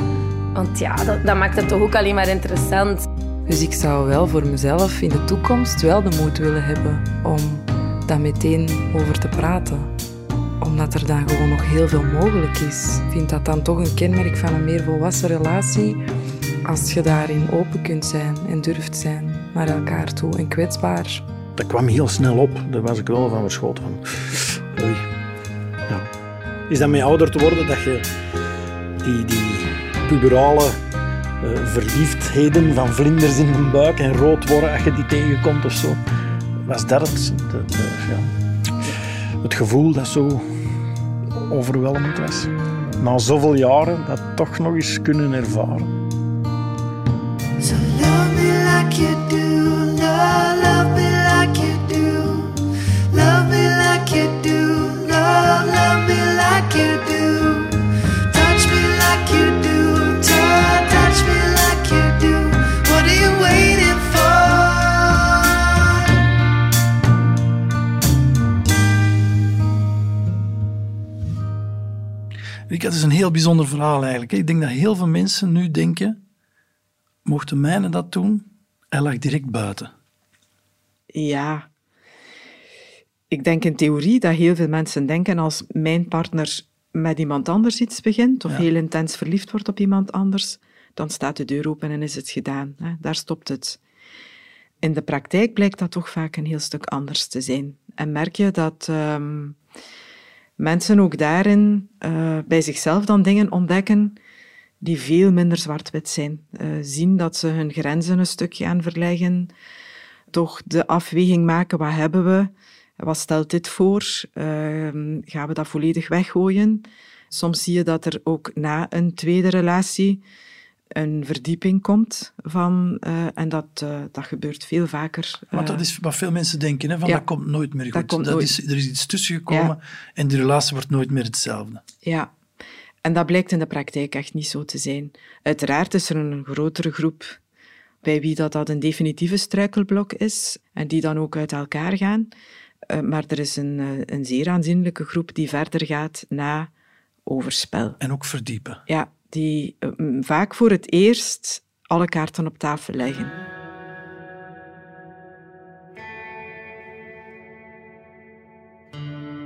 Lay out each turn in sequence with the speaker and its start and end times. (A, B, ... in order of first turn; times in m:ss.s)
0:00.5-0:03.0 A
0:03.5-0:09.9 B
0:10.6-0:16.0 B
0:16.6-0:21.2 B
0:21.6-0:25.1 C
0:26.7-0:28.0 C
0:29.0-0:30.8 C
0:31.4-0:36.0 C
0:36.6-0:38.3 C
0:39.4-0:40.4 C
0:41.4-0:45.9 C
0:47.6-0:57.8 D
0:58.3-1:06.0 D
1:12.7-1:16.2 E
1:17.2-1:19.9 E
1:21.1-1:21.7 F
1:23.3-1:33.8 F
1:34.8-1:39.6 F
1:40.6-1:44.2 F
1:44.8-1:49.5 F
1:50.3-2:00.2 F
2:00.9-2:05.8 F
2:05.5-2:11.8 E
2:07.9-2:08.5 F
2:12.0-2:12.3 F
2:13.0-2:17.4 F
2:18.0-2:22.3 F
2:22.9-2:26.7 F
2:27.2-2:28.0 F
2:28.0-2:28.8 E
2:28.9-2:33.4 F